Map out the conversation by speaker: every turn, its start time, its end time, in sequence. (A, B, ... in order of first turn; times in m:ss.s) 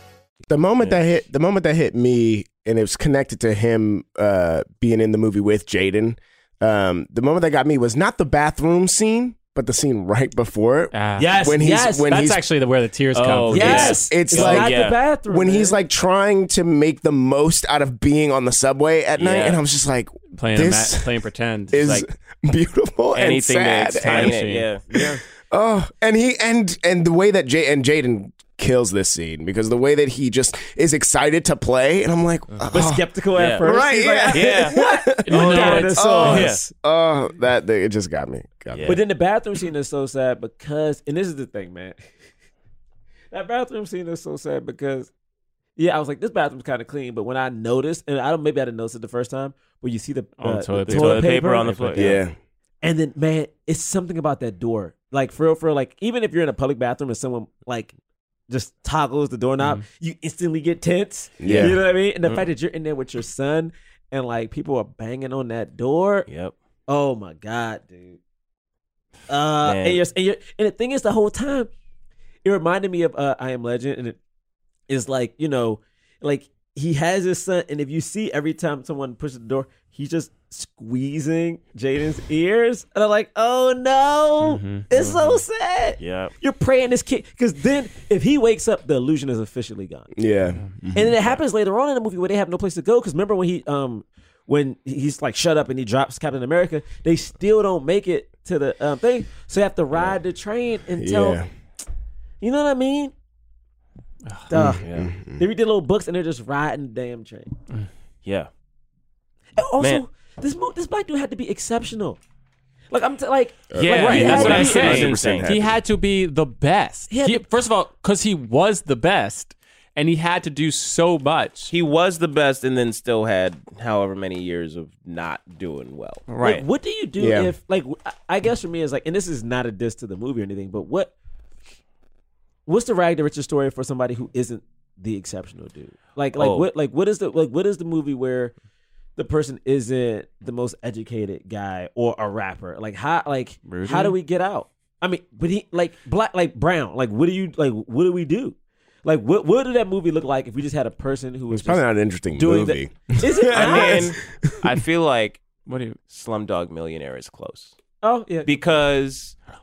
0:00.5-0:12.4 A
0:10.9-0:11.3 B
0:11.2-0:12.1 C
0:12.1-0:14.0 B
0:13.2-0:15.0 D
0:13.5-0:15.8 C
0:13.5-0:21.1 A
0:19.2-0:19.6 D
0:20.4-0:22.0 B
0:21.7-0:24.4 A
0:23.1-0:24.9 D
0:23.9-0:24.7 B
0:24.9-0:25.2 C
0:25.0-0:33.0 A
0:32.7-0:36.7 C
0:33.4-0:33.6 D
0:33.6-0:39.0 A
0:34.3-0:34.8 D
0:35.2-0:36.4 B
0:35.5-0:36.6 D
0:38.7-0:39.0 D
0:38.8-0:42.0 C
0:43.3-0:45.1 C
0:45.8-0:52.1 C
0:50.4-0:52.1 B
0:50.9-0:52.2 D
0:52.0-0:52.4 A
0:52.8-0:57.9 C
0:58.5-1:06.3 C
1:01.4-1:01.8 A
1:06.3-1:06.5 D
1:06.9-1:08.2 C
1:09.3-1:11.7 C
1:09.6-1:10.0 D
1:12.4-1:14.2 C
1:14.9-1:30.1 C
1:24.4-1:24.9 B
1:26.0-1:26.3 D
1:30.2-1:31.4 A
1:31.0-1:41.4 C
1:41.0-1:41.5 A
1:42.4-1:43.1 C
1:44.5-1:44.8 C
1:44.5-1:45.4 A
1:44.8-1:45.1 D
1:45.4-1:47.5 C
1:49.6-1:52.2 C
1:52.9-1:55.2 C
1:53.7-1:55.8 A
1:53.8-1:55.5 D
1:53.8-2:01.7 B
1:57.1-1:57.5 C
2:01.7-2:06.3 D
2:06.3-2:06.6 B
2:06.4-2:11.1 C
2:07.2-2:07.5 A
2:12.7-2:18.5 C
2:16.4-2:16.7 D
2:19.2-2:34.2 C
2:23.7-2:24.1 B
2:23.8-2:24.1 D
2:31.5-2:34.2 A
2:33.5-2:35.4 D
2:35.7-2:36.0 B
2:36.1-2:37.8 D
2:38.0-2:38.5 C
2:38.4-2:39.4 D